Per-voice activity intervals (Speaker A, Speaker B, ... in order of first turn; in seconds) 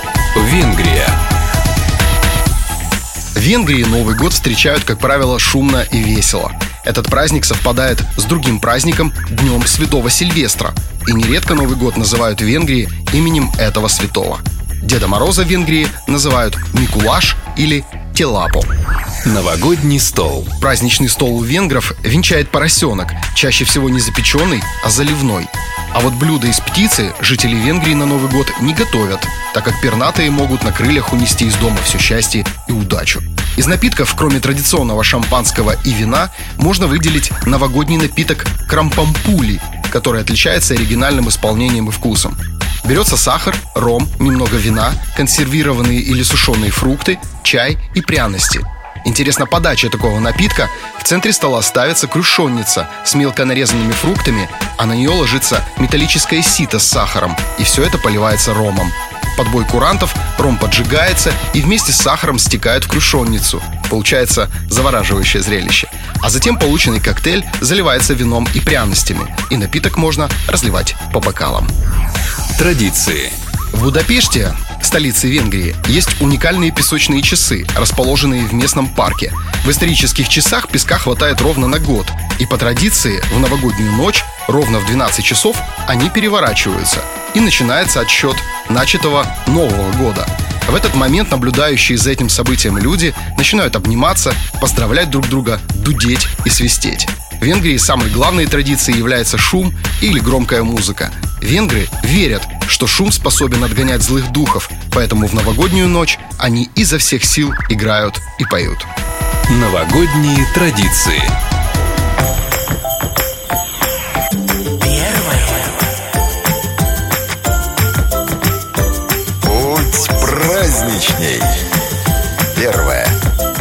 Speaker A: 0.3-1.2, 19.2-20.5, 72.5-73.4, 109.5-111.4
Speaker B: 3.4-18.7, 20.5-71.7, 73.7-108.9
Speaker C: 119.5-121.5, 122.5-123.2